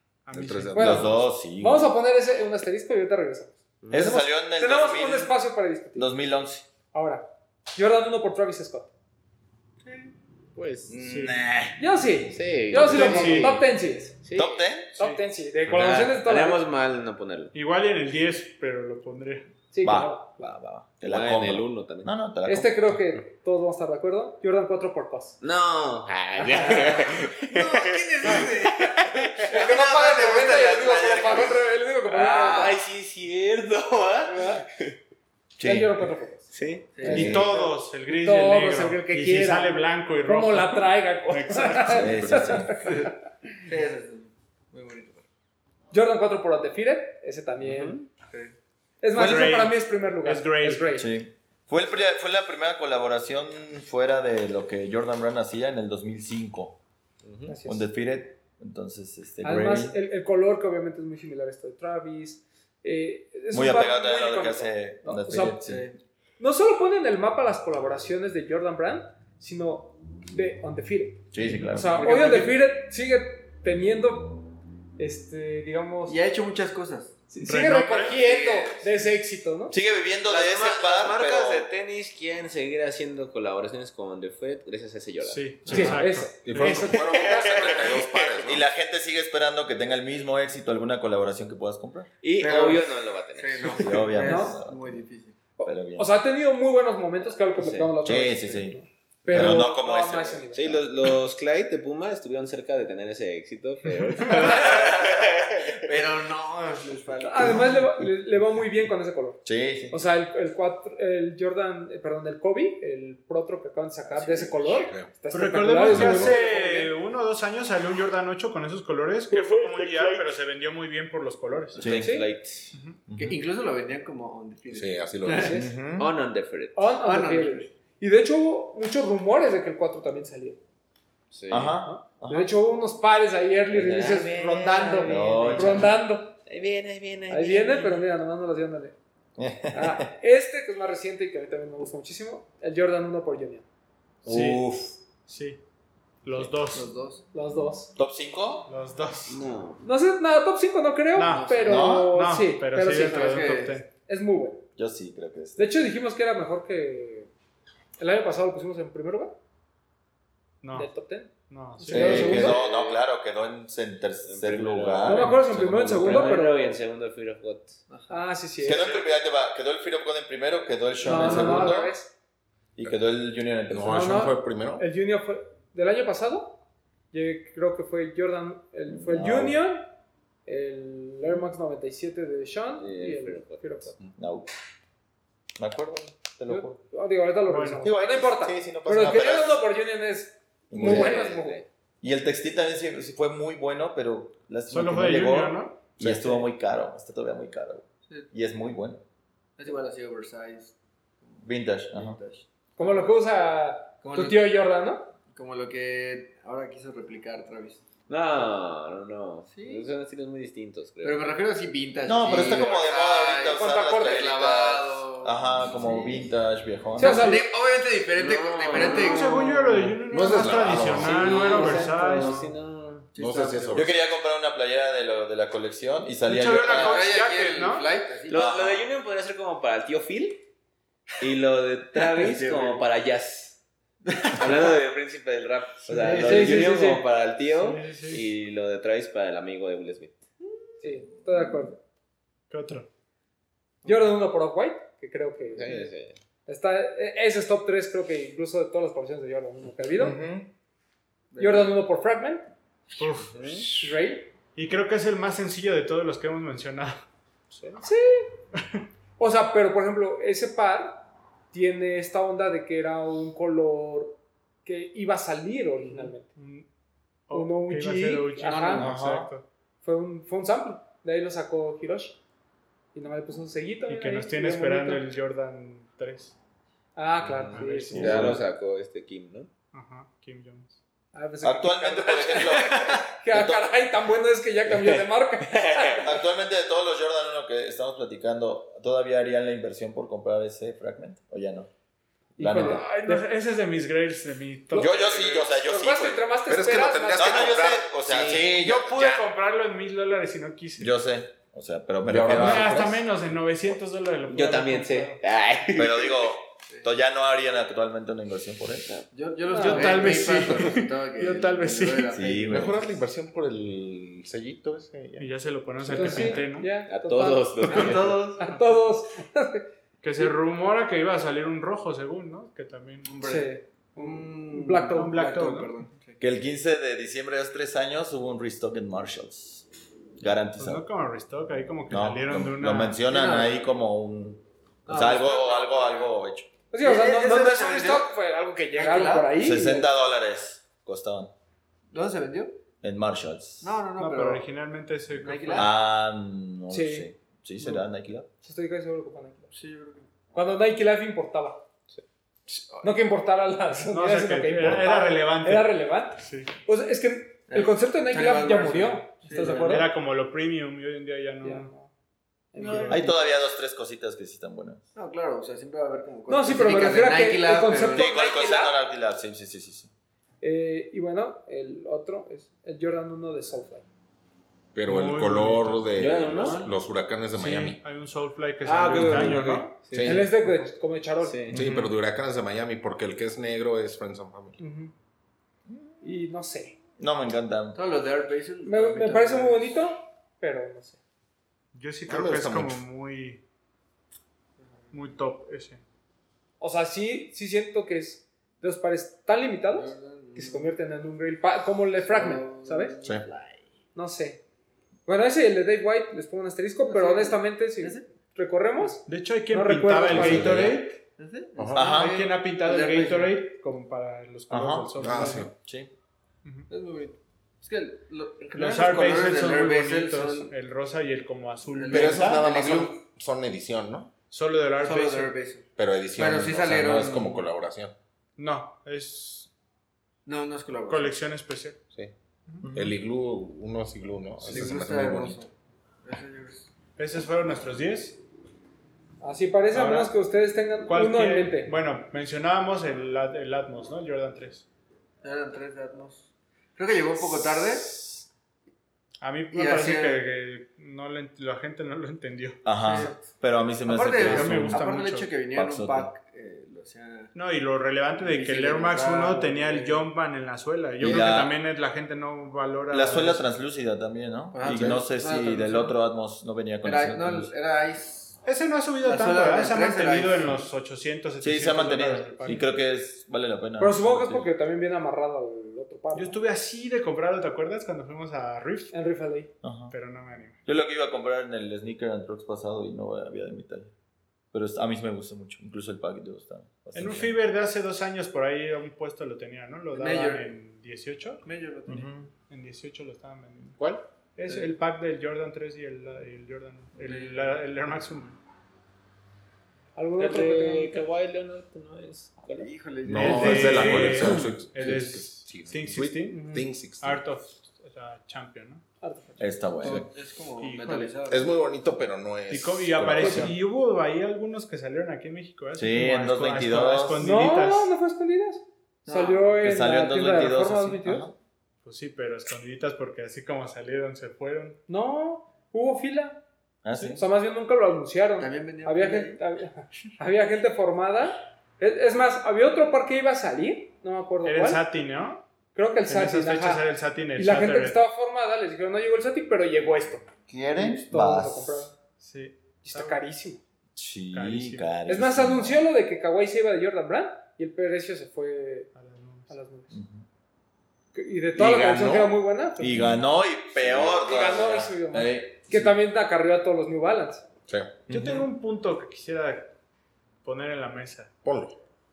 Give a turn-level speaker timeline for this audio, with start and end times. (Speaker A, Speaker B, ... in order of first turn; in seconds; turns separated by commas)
Speaker A: 0.2-1.2, Speaker B: 0.3-1.1, Speaker C: 0.7-6.1, Speaker D: 0.8-1.9, Speaker E: 3.8-4.1, Speaker D: 3.9-5.3, Speaker D: 5.9-6.7, Speaker C: 6.9-8.9, Speaker E: 9.8-11.0, Speaker D: 10.9-11.8, Speaker A: 11.0-11.4, Speaker C: 11.8-14.3, Speaker E: 12.3-13.6, Speaker A: 12.7-13.6, Speaker E: 14.2-14.6, Speaker D: 14.3-14.9, Speaker A: 14.9-15.2, Speaker C: 15.0-16.6, Speaker E: 15.7-17.5, Speaker A: 17.5-19.5, Speaker C: 19.7-20.4, Speaker D: 19.8-22.9, Speaker E: 21.0-22.1, Speaker C: 22.4-25.4, Speaker E: 25.4-29.7, Speaker F: 26.5-31.5, Speaker C: 29.4-32.8, Speaker E: 30.7-31.5, Speaker E: 32.1-35.0, Speaker C: 34.3-34.6, Speaker D: 35.6-36.1, Speaker C: 35.6-36.5, Speaker E: 36.5-37.4, Speaker F: 36.9-37.5, Speaker A: 37.0-42.3, Speaker C: 37.0-43.2, Speaker D: 37.1-37.5, Speaker D: 41.9-42.7, Speaker F: 42.8-45.2, Speaker C: 45.9-48.0, Speaker E: 47.6-48.1, Speaker C: 49.0-51.1, Speaker A: 49.1-51.0, Speaker D: 51.0-56.8, Speaker E: 57.2-57.5, Speaker C: 57.5-57.9, Speaker D: 57.6-60.0, Speaker C: 59.4-65.6, Speaker D: 63.5-65.9, Speaker F: 65.6-66.0, Speaker C: 66.4-74.5, Speaker D: 71.3-72.1, Speaker F: 72.0-72.5, Speaker C: 75.0-76.2, Speaker F: 76.1-77.2, Speaker C: 77.3-79.8, Speaker A: 77.4-78.2, Speaker E: 78.0-78.2, Speaker F: 78.0-79.1, Speaker D: 79.7-81.7, Speaker E: 80.3-85.4, Speaker A: 85.2-86.8, Speaker F: 85.7-86.0, Speaker C: 85.7-87.9, Speaker B: 86.4-88.6, Speaker E: 86.6-88.3, Speaker D: 88.4-92.1, Speaker E: 92.2-94.0, Speaker F: 92.4-95.4, Speaker D: 93.7-95.0, Speaker C: 94.2-94.6, Speaker C: 95.6-100.9, Speaker D: 95.6-96.1, Speaker E: 97.5-97.9, Speaker D: 98.0-100.5, Speaker E: 100.5-106.0, Speaker F: 104.4-105.0, Speaker F: 105.7-107.8, Speaker C: 107.2-116.9, Speaker D: 109.4-110.1, Speaker F: 114.2-114.5, Speaker B: 114.6-115.1, Speaker A: 115.3-121.9, Speaker B: 115.9-116.3, Speaker D: 119.3-120.2, Speaker E: 121.8-122.7, Speaker D: 121.8-122.2, Speaker C: 122.0-122.3, Speaker A: 122.7-123.0, Speaker D: 123.1-123.4, Speaker F: 123.2-125.6, Speaker B: 124.7-125.7, Speaker C: 125.3-125.7, Speaker D: 125.5-126.1, Speaker E: 126.0-126.9, Speaker C: 126.7-130.6, Speaker F: 127.0-127.7, Speaker E: 131.3-131.8, Speaker D: 131.5-132.5, Speaker C: 131.8-136.4, Speaker E: 133.7-135.8, Speaker D: 135.0-135.9, Speaker E: 136.4-138.0, Speaker C: 137.3-138.9, Speaker D: 139.4-140.1, Speaker C: 139.7-143.7, Speaker A: 144.2-144.7, Speaker D: 144.2-145.0, Speaker A: 145.2-145.6, Speaker A: 146.2-146.9, Speaker F: 146.7-147.2, Speaker C: 147.3-147.9, Speaker D: 147.9-148.7, Speaker A: 148.7-149.5, Speaker E: 149.3-149.8, Speaker C: 149.8-153.4, Speaker A: 151.1-153.9, Speaker F: 151.2-151.9, Speaker D: 151.6-152.1, Speaker F: 152.8-153.8, Speaker C: 154.0-154.6, Speaker D: 154.8-155.7, Speaker C: 155.6-157.3, Speaker C: 158.0-159.3, Speaker A: 160.6-162.4, Speaker C: 160.7-162.6, Speaker D: 161.9-166.3, Speaker E: 162.1-163.0, Speaker E: 164.2-167.8, Speaker C: 165.0-166.8, Speaker F: 167.9-168.2, Speaker C: 168.1-168.9, Speaker D: 168.6-171.9, Speaker C: 171.0-172.1, Speaker F: 171.1-171.7, Speaker D: 172.8-174.1, Speaker B: 173.7-174.8, Speaker C: 173.8-176.6, Speaker C: 177.1-179.9, Speaker D: 178.9-179.6, Speaker C: 180.4-183.9, Speaker E: 182.8-184.0, Speaker D: 184.2-184.5, Speaker D: 185.6-186.8, Speaker C: 186.5-191.6, Speaker A: 187.5-187.9, Speaker D: 187.8-189.6, Speaker D: 190.7-191.3, Speaker E: 190.7-191.7, Speaker D: 192.0-199.0, Speaker A: 194.7-196.4, Speaker F: 199.6-203.2, Speaker D: 201.4-202.2, Speaker C: 202.8-205.1, Speaker F: 204.0-204.5, Speaker F: 205.3-207.8, Speaker E: 208.1-211.3, Speaker F: 209.5-209.9, Speaker F: 211.0-216.3, Speaker D: 212.0-217.3, Speaker C: 213.5-214.3, Speaker C: 217.0-217.4, Speaker F: 217.0-219.6, Speaker E: 218.2-219.7, Speaker A: 218.8-222.5, Speaker B: 220.0-221.3, Speaker E: 221.0-223.1, Speaker C: 221.0-222.4, Speaker F: 221.1-222.2, Speaker F: 223.1-223.8, Speaker B: 223.2-223.9, Speaker D: 223.7-227.1, Speaker A: 226.2-227.9, Speaker F: 226.6-228.5, Speaker E: 228.2-230.4, Speaker D: 228.3-228.8, Speaker E: 231.2-233.6, Speaker F: 232.0-232.8, Speaker F: 234.1-234.7, Speaker E: 234.3-240.2, Speaker A: 235.9-236.7, Speaker F: 236.0-236.3, Speaker C: 236.2-237.0, Speaker A: 237.5-238.2, Speaker C: 240.8-241.8, Speaker A: 242.5-242.9, Speaker C: 243.8-245.9, Speaker E: 245.5-246.2, Speaker C: 246.4-250.2, Speaker D: 250.0-250.5, Speaker F: 251.3-251.7, Speaker C: 251.4-252.5, Speaker A: 253.0-253.9, Speaker E: 253.3-253.7, Speaker C: 253.8-254.3, Speaker A: 254.5-257.8, Speaker C: 257.8-258.4, Speaker C: 259.2-266.3, Speaker A: 266.3-266.7, Speaker A: 267.3-269.4, Speaker C: 267.3-268.9, Speaker F: 268.5-268.9, Speaker D: 268.8-269.3, Speaker C: 269.8-272.2, Speaker C: 272.9-275.1, Speaker A: 273.9-276.4, Speaker C: 276.9-278.4, Speaker E: 277.2-279.5, Speaker A: 277.5-278.4, Speaker D: 277.9-278.4, Speaker A: 279.7-280.8, Speaker C: 281.1-286.1, Speaker D: 281.4-283.7, Speaker E: 284.7-286.0, Speaker D: 286.0-291.7, Speaker C: 292.4-293.2, Speaker D: 292.4-292.8, Speaker A: 292.5-295.0, Speaker D: 294.7-296.3, Speaker B: 294.9-295.5, Speaker C: 295.6-297.6, Speaker B: 296.4-299.2, Speaker D: 297.1-299.1, Speaker A: 298.5-300.9, Speaker D: 300.8-302.9, Speaker B: 302.1-303.0, Speaker A: 302.3-305.2, Speaker E: 304.3-306.3, Speaker D: 305.7-308.9, Speaker F: 309.1-312.7, Speaker C: 309.5-310.5, Speaker A: 309.5-312.2, Speaker D: 312.1-312.8, Speaker B: 312.5-316.3, Speaker A: 315.2-316.7, Speaker C: 315.9-320.3, Speaker E: 316.9-318.3, Speaker F: 317.6-318.5, Speaker A: 320.0-323.1, Speaker F: 323.0-326.2, Speaker C: 323.2-325.2, Speaker A: 324.9-325.8, Speaker D: 326.2-329.7, Speaker D: 330.2-330.8, Speaker A: 330.6-333.0, Speaker D: 331.9-336.5, Speaker F: 333.1-333.6, Speaker F: 334.9-336.1, Speaker C: 336.7-339.7, Speaker F: 336.8-338.1, Speaker F: 338.7-339.9, Speaker D: 339.4-341.3, Speaker F: 341.9-342.6, Speaker D: 342.8-343.8, Speaker F: 343.6-344.5, Speaker A: 344.0-345.7, Speaker F: 345.1-345.7, Speaker D: 345.5-348.3, Speaker C: 346.7-347.1, Speaker C: 348.4-349.5, Speaker F: 349.5-350.1, Speaker C: 350.3-351.6, Speaker C: 352.8-359.9, Speaker A: 353.9-356.5, Speaker F: 357.5-359.9, Speaker A: 359.4-361.7, Speaker C: 361.4-361.9, Speaker C: 362.5-363.2, Speaker A: 362.6-363.1, Speaker F: 362.6-363.1, Speaker D: 362.9-364.8, Speaker F: 364.9-368.2, Speaker C: 366.3-368.8, Speaker D: 367.9-369.9, Speaker C: 370.4-373.9, Speaker B: 374.7-377.8, Speaker A: 374.9-376.7, Speaker E: 375.9-376.7, Speaker A: 377.3-379.9, Speaker E: 378.6-380.3, Speaker B: 379.9-380.3, Speaker C: 380.0-381.5, Speaker E: 381.2-381.6, Speaker B: 381.5-384.6, Speaker A: 381.5-381.9, Speaker C: 384.6-384.9, Speaker C: 386.0-386.8, Speaker D: 387.0-387.8, Speaker F: 387.7-389.8, Speaker C: 388.6-391.0, Speaker A: 391.7-393.4, Speaker B: 392.1-392.8, Speaker F: 394.6-394.9, Speaker A: 394.9-395.8, Speaker C: 396.6-402.9, Speaker F: 399.7-400.7, Speaker F: 402.0-403.6, Speaker C: 403.9-404.4, Speaker C: 405.1-410.6, Speaker F: 406.9-408.1, Speaker A: 409.0-411.0, Speaker B: 410.1-410.7, Speaker D: 410.1-410.7, Speaker F: 411.2-413.4, Speaker B: 411.6-411.9, Speaker D: 411.7-412.2, Speaker A: 411.8-415.5, Speaker D: 414.5-415.9, Speaker B: 415.0-415.5, Speaker F: 416.7-420.5, Speaker A: 418.5-422.6, Speaker F: 421.7-422.9, Speaker B: 421.9-424.1, Speaker A: 424.3-425.4, Speaker F: 424.8-427.4, Speaker B: 425.8-427.9, Speaker A: 428.4-429.5, Speaker F: 430.2-431.2, Speaker A: 430.9-431.8, Speaker D: 432.6-432.9, Speaker B: 432.7-435.4, Speaker F: 434.4-435.5, Speaker F: 436.0-436.7, Speaker A: 437.0-438.2, Speaker C: 439.2-441.7, Speaker A: 439.7-440.1, Speaker A: 440.9-444.6, Speaker F: 445.2-448.0, Speaker D: 447.4-448.2, Speaker A: 449.2-452.6, Speaker F: 449.5-450.2, Speaker D: 452.6-454.8, Speaker F: 452.8-453.3, Speaker F: 453.8-457.3, Speaker A: 454.1-455.4, Speaker D: 455.5-456.1, Speaker A: 457.3-463.5, Speaker F: 458.2-460.1, Speaker D: 461.0-461.5, Speaker D: 462.9-467.5, Speaker F: 464.5-465.9, Speaker F: 466.8-468.4, Speaker A: 468.4-472.6, Speaker F: 469.0-470.6, Speaker D: 471.4-474.5, Speaker C: 473.8-476.4, Speaker A: 476.1-478.9, Speaker C: 478.9-479.5, Speaker D: 479.6-479.9, Speaker A: 479.9-480.6, Speaker D: 480.6-483.9, Speaker D: 484.5-487.4, Speaker A: 486.9-491.4, Speaker F: 489.9-490.5, Speaker F: 491.4-492.1, Speaker D: 491.9-492.3, Speaker A: 492.5-493.8, Speaker B: 493.8-494.0, Speaker A: 494.3-498.4, Speaker F: 494.5-494.7, Speaker F: 497.0-497.5, Speaker C: 499.9-500.9, Speaker E: 500.2-502.7, Speaker F: 502.6-504.3, Speaker B: 503.0-507.2, Speaker A: 503.1-508.8, Speaker C: 506.3-506.6, Speaker C: 509.0-509.5, Speaker D: 509.4-510.1, Speaker F: 509.8-511.5, Speaker A: 510.6-511.2, Speaker B: 511.2-513.5, Speaker A: 512.5-517.9, Speaker C: 513.2-513.5, Speaker D: 513.2-513.5, Speaker D: 515.8-517.3, Speaker C: 517.2-521.3, Speaker F: 519.0-519.5, Speaker D: 519.6-521.3, Speaker A: 521.8-524.8, Speaker C: 524.9-526.4, Speaker D: 526.8-527.2, Speaker C: 527.0-534.8, Speaker F: 528.4-529.4, Speaker A: 534.4-535.5, Speaker C: 535.7-542.0, Speaker A: 536.1-538.0, Speaker D: 540.5-541.9, Speaker A: 542.2-543.2, Speaker C: 542.8-543.6, Speaker D: 544.0-545.9, Speaker A: 544.3-544.9, Speaker C: 545.1-548.9, Speaker A: 548.9-549.5, Speaker C: 549.5-550.0, Speaker D: 549.9-550.2, Speaker C: 551.1-553.1, Speaker B: 551.6-552.3, Speaker D: 552.8-555.9, Speaker C: 553.9-557.5, Speaker B: 557.7-558.1, Speaker A: 558.1-559.7, Speaker D: 558.1-558.5, Speaker A: 560.4-561.3, Speaker B: 561.4-561.8